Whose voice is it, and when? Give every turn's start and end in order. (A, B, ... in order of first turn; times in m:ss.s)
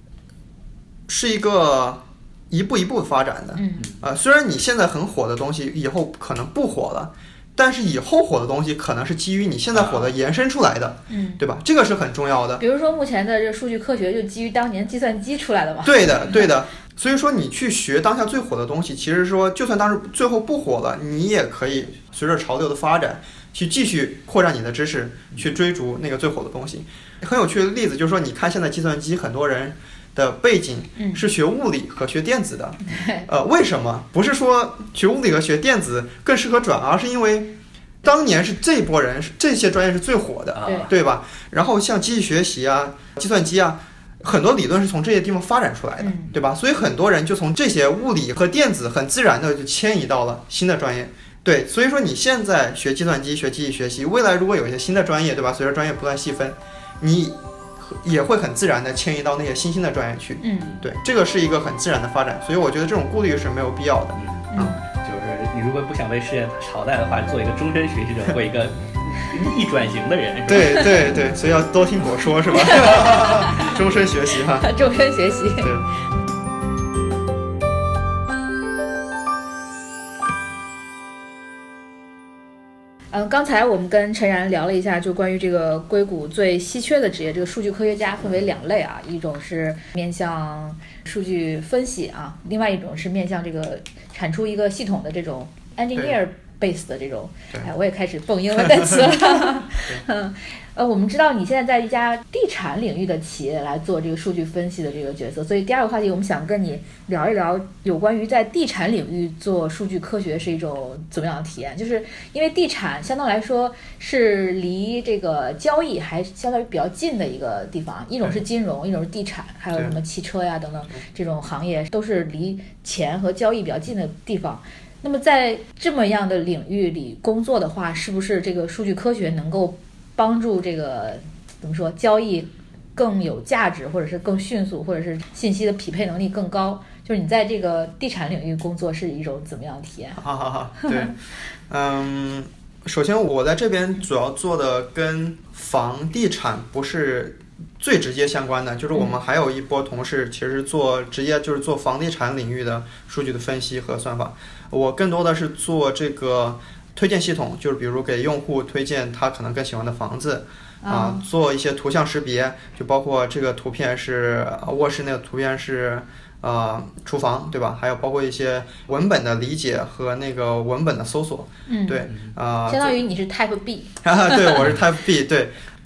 0:01.1-0:12.6 A
0:03.6-0:03.9 B
0:09.7-0:10.1 C
0:11.1-0:11.4 B
0:12.6-0:16.5 B
0:15.8-1:04.8 A
0:31.0-0:31.2 B
0:32.9-0:33.3 B
0:40.6-0:40.9 C
0:40.6-0:40.9 B
0:46.0-0:46.3 B
1:00.4-1:00.7 B
1:00.6-1:00.9 C
1:04.2-1:11.2 C
1:04.5-1:04.8 B
1:10.5-1:14.7 A
1:12.5-1:13.8 B
1:14.6-1:15.8 B
1:15.6-1:15.9 A
1:23.1-2:20.2 B
1:38.8-1:39.1 A
2:20.2-2:21.2 A
2:20.8-2:21.1 B
2:21.7-2:53.0 A
2:40.8-2:41.2 B
2:51.7-2:52.1 B
2:52.7-2:54.8 B
2:54.0-2:55.5 A